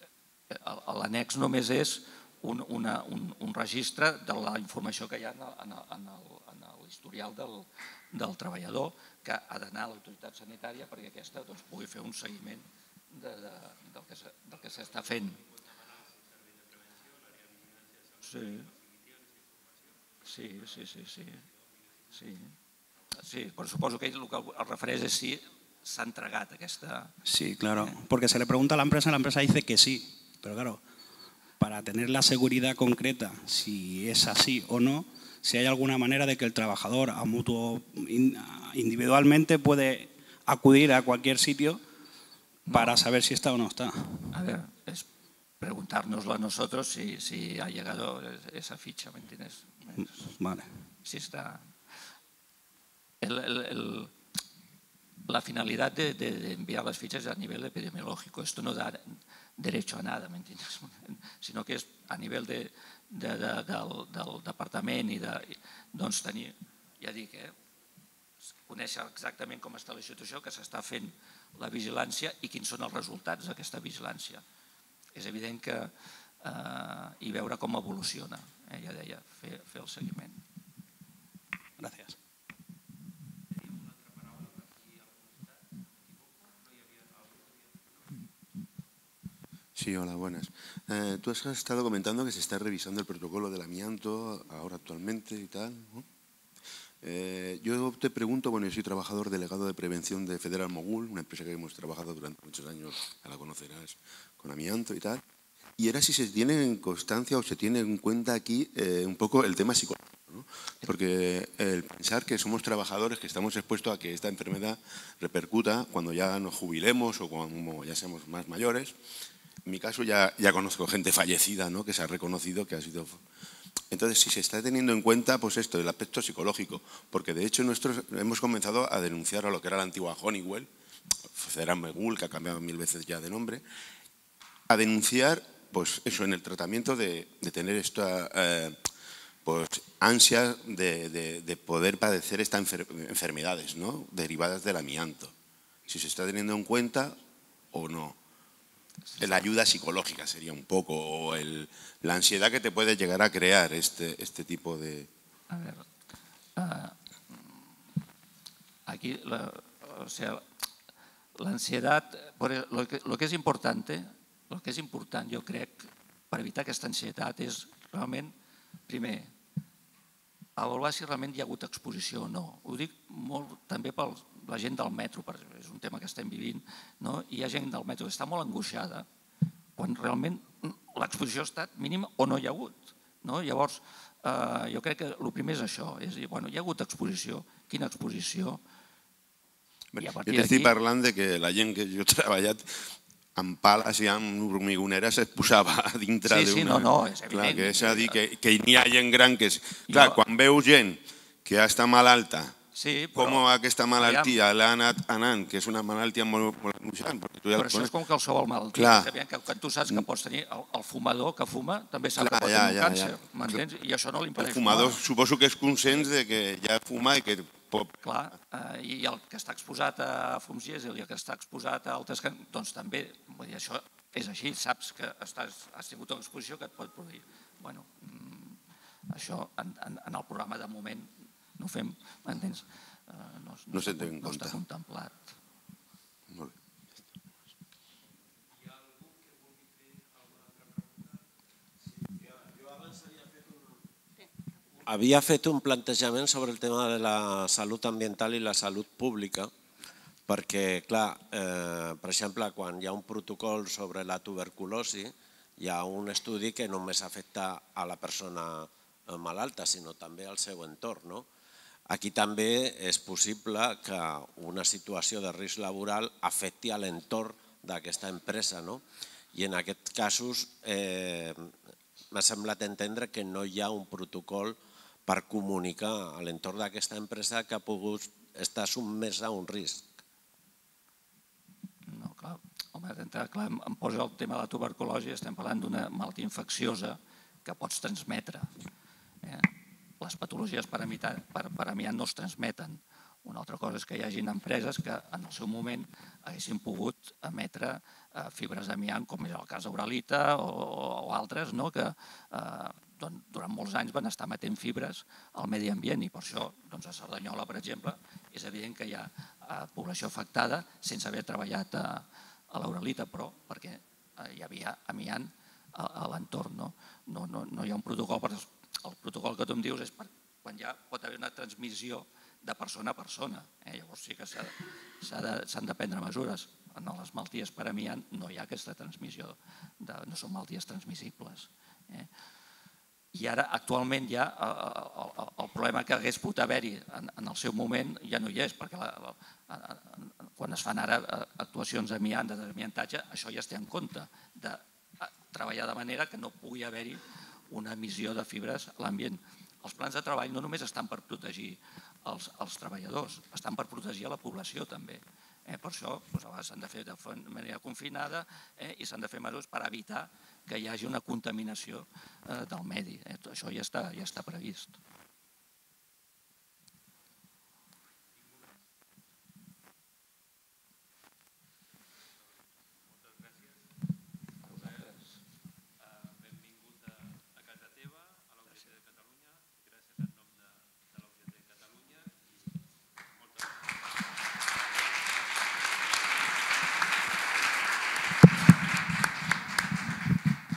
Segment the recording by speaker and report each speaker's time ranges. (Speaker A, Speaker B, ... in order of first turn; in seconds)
Speaker A: 0.5-15.4, 18.2-18.7, 20.2-21.4, 22.1-22.5, 23.2-27.1, 42.7-43.0, 44.3-45.0, 45.6-50.3, 51.0-51.6, 53.2-54.1, 55.3-59.0, 59.6-67.5, 68.7-74.4, 75.2-75.9, 76.4-80.4, 149.2-149.4, 155.5-155.8, 156.6-157.4, 158.9-160.4, 161.4-168.3, 168.9-169.3, 170.6-179.1, 179.8-188.6, 190.0-190.7, 196.3-198.2, 199.9-200.2, 202.7-204.3, 207.6-215.0, 218.0-228.6, 229.1-235.2, 281.9-288.5, 289.2-289.5, 290.0-332.1, 333.1-364.8
Speaker B: 27.2-30.8, 31.6-41.8, 42.7-44.2, 50.4-50.7, 81.8-82.2
Speaker C: 89.8-96.0, 97.0-105.2, 105.8-119.0, 119.7-123.2, 123.9-130.7, 131.3-133.6, 134.7-138.8, 139.4-145.3, 145.9-147.2, 147.7-148.2, 149.2-155.1, 189.9-192.8, 193.4-202.6, 203.2-207.9, 208.7-209.1, 212.2-213.6, 214.4-217.9, 233.7-234.6
Speaker D: 244.9-249.5, 250.3-261.2, 261.9-268.8, 269.3-271.4, 272.1-274.6, 275.1-279.8